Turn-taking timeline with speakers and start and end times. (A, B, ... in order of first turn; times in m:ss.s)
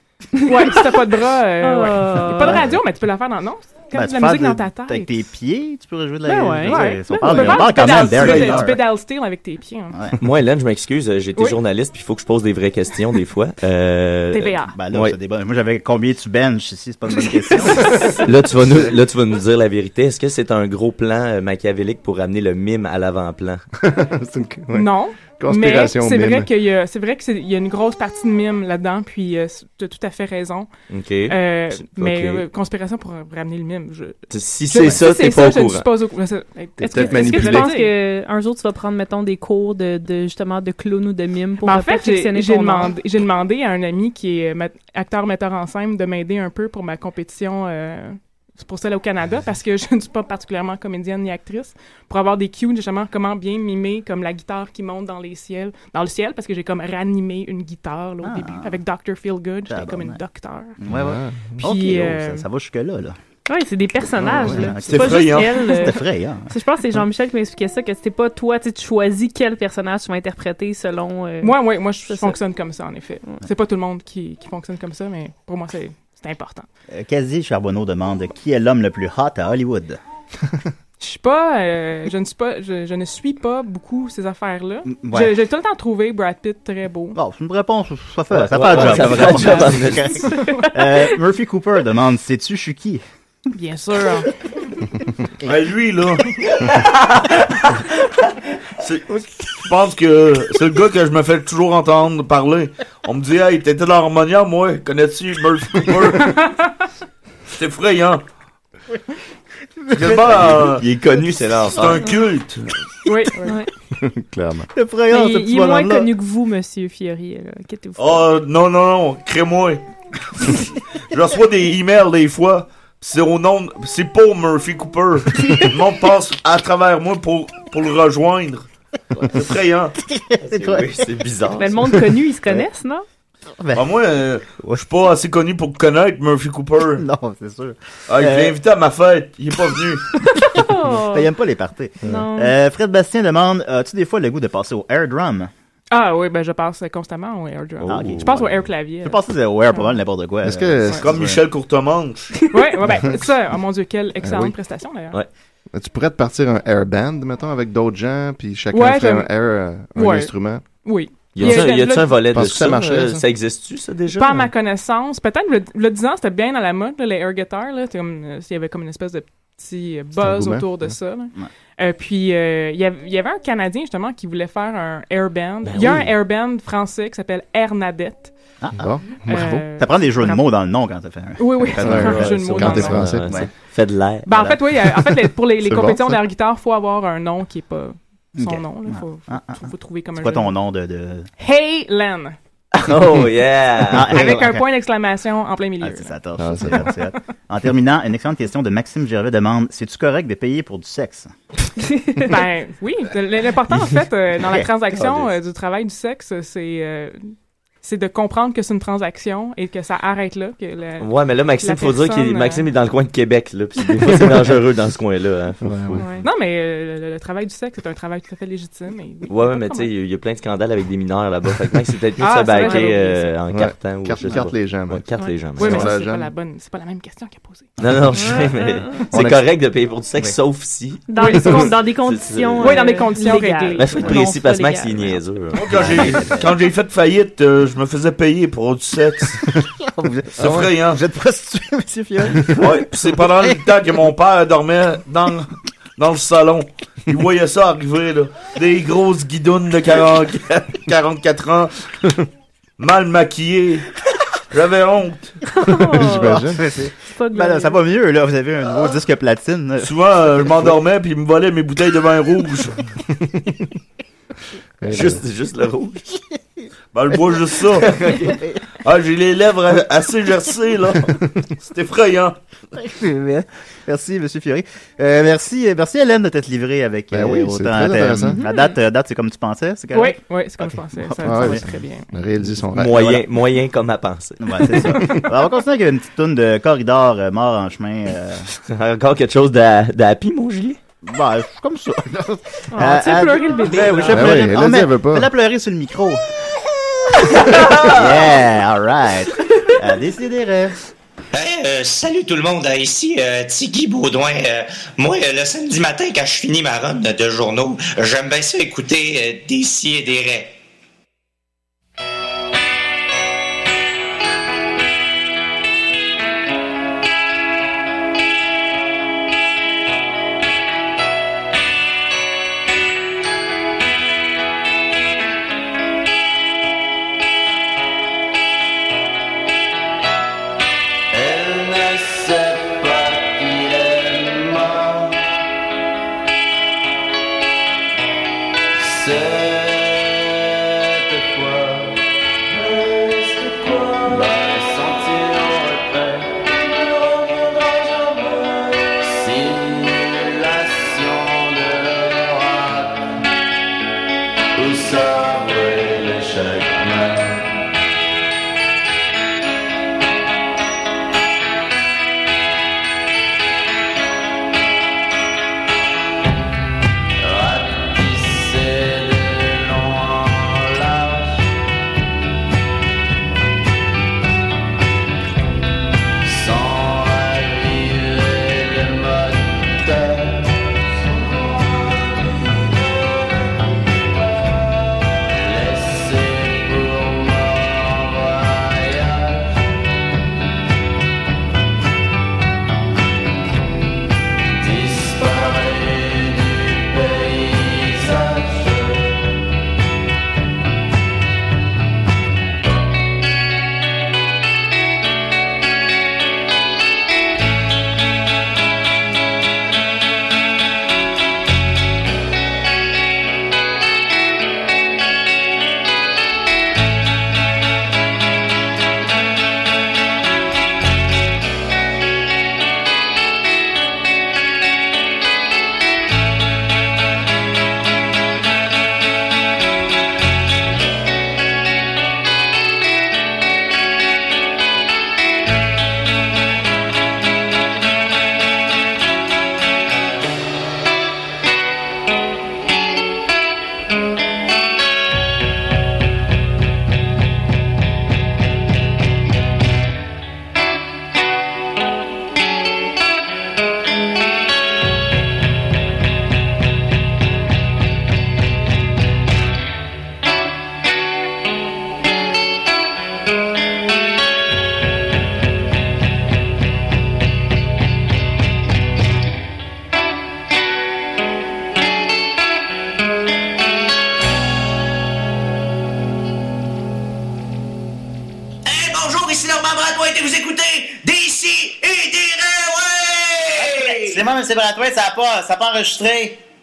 0:00.4-0:00.8 A
0:00.4-0:05.1 B
0:01.6-0:02.7 A
0:03.9-0:08.8 C
0:06.3-0:07.9 A
0:06.6-0:10.0 B
0:08.0-0:08.8 D
0:10.2-0:15.2 E
0:14.3-0:14.7 B
0:14.7-0:18.2 C
0:17.5-0:18.2 B
0:18.2-0:23.6 E
0:23.8-0:26.5 F
0:24.7-0:30.7 B
0:30.9-0:32.4 E
0:31.3-0:37.9 B
0:34.3-0:35.9 E
0:36.8-0:37.7 F
0:36.8-0:42.9 A
0:41.6-1:00.8 B
0:58.2-0:58.8 C
0:59.7-1:00.2 C
1:00.8-1:03.2 C
1:00.9-1:01.6 F
1:01.6-1:02.5 B
1:03.5-1:12.4 A
1:04.2-1:04.7 F
1:04.4-1:06.5 C
1:04.9-1:05.5 D
1:11.4-1:16.7 B
1:16.9-1:20.0 C
1:21.0-1:27.2 B
1:24.9-1:25.4 C
1:27.2-1:33.0 C
1:28.4-1:30.2 E
1:29.0-1:30.7 B
1:30.3-1:31.0 A
1:33.5-1:34.3 B
1:35.4-1:36.8 D
1:38.8-1:39.0 D
1:39.6-1:46.4 D
1:47.5-1:48.2 D
1:49.9-1:50.5 C
1:49.9-1:50.9 D
1:50.4-1:52.0 E
1:51.7-1:52.7 D
1:53.1-1:53.6 B
1:53.4-1:53.7 A
1:54.0-1:54.7 F
1:54.7-1:56.1 C
1:55.1-1:58.3 A
1:58.0-1:59.8 D
2:01.1-2:08.7 D
2:09.3-2:09.9 D
2:10.0-2:11.0 C
2:10.4-2:11.9 E
2:11.6-2:13.0 A
2:13.6-2:14.0 C
2:13.7-2:17.0 D
2:14.6-2:14.8 C
2:17.0-2:18.6 C
2:18.1-2:20.0 D
2:20.4-2:21.3 A
2:20.4-2:25.5 C
2:22.0-2:22.6 A
2:25.9-2:29.2 B
2:27.8-2:28.2 E
2:27.9-2:31.4 C
2:30.4-2:31.1 F
2:31.0-2:32.3 D
2:32.5-2:35.2 B
2:34.2-2:34.5 F
2:35.7-2:40.6 F
2:38.7-2:39.3 B
2:40.0-2:40.3 B
2:40.8-2:42.2 B
2:41.3-2:44.5 E
2:41.4-2:43.2 F
2:44.1-2:58.3 B
2:50.2-2:51.0 F
2:55.6-2:56.1 E
2:58.6-2:58.9 C
2:58.8-2:59.7 F
2:59.2-3:00.4 B
2:59.8-3:03.5 C
3:01.4-3:03.0 B
3:01.8-3:03.4 F
3:02.0-3:04.5 E
3:04.3-3:10.5 B
3:04.3-3:04.6 C
3:05.6-3:06.2 F
3:08.4-3:09.6 C
3:10.2-3:11.3 C
3:11.4-3:12.4 B
3:12.8-3:14.4 E
3:13.9-3:14.6 C
3:14.1-3:17.0 B
3:15.8-3:21.3 C
3:16.4-3:16.9 F
3:22.2-3:32.7 B
3:24.4-3:25.3 C
3:31.0-3:36.1 E
3:35.6-3:36.0 F
3:36.0-3:36.2 A
3:36.2-3:39.9 B
3:39.3-3:45.9 E
3:42.2-3:43.3 B
3:42.6-3:43.0 A
3:43.5-3:46.3 F
3:45.6-3:47.7 B
3:47.8-3:53.1 E
3:48.1-3:49.1 A
3:49.1-3:49.4 F
3:51.1-3:55.2 A
3:51.2-3:51.8 B
3:52.6-3:54.2 B
3:53.8-3:56.3 E
3:55.5-3:59.4 D
3:55.7-3:56.6 C
3:59.6-4:03.6 C
4:00.4-4:01.0 D
4:00.4-4:00.7 F
4:02.6-4:11.7 D
4:12.8-4:13.9 D
4:14.5-4:15.4 D
4:15.5-4:17.8 A
4:15.7-4:16.6 F
4:16.1-4:19.9 C
4:19.8-4:22.8 D
4:23.1-4:23.7 F
4:24.8-4:25.2 F
4:24.9-4:26.1 E
4:26.9-4:28.0 D
4:27.8-4:28.4 E
4:28.8-4:32.4 D
4:32.8-4:41.6 C
4:37.1-4:38.4 F
4:38.3-4:38.8 A
4:39.9-4:42.1 B
4:41.2-4:43.2 F
4:42.7-4:44.4 E
4:42.9-4:43.2 C
4:44.4-4:48.5 C
4:48.7-4:50.8 E
4:51.0-4:56.2 C
4:52.7-4:54.4 A
4:54.1-4:55.3 F
4:57.2-5:00.8 C
4:57.6-4:58.0 E
5:01.3-5:10.6 G
5:31.1-5:35.2 H
5:38.8-5:42.0 H
5:42.6-5:53.0 H
5:54.6-5:57.4 H
6:07.2-6:11.4 H
6:16.3-6:20.5 H
6:25.4-6:29.4 H
6:34.6-6:39.1 H
7:58.7-8:04.3 G
8:03.6-8:06.4 C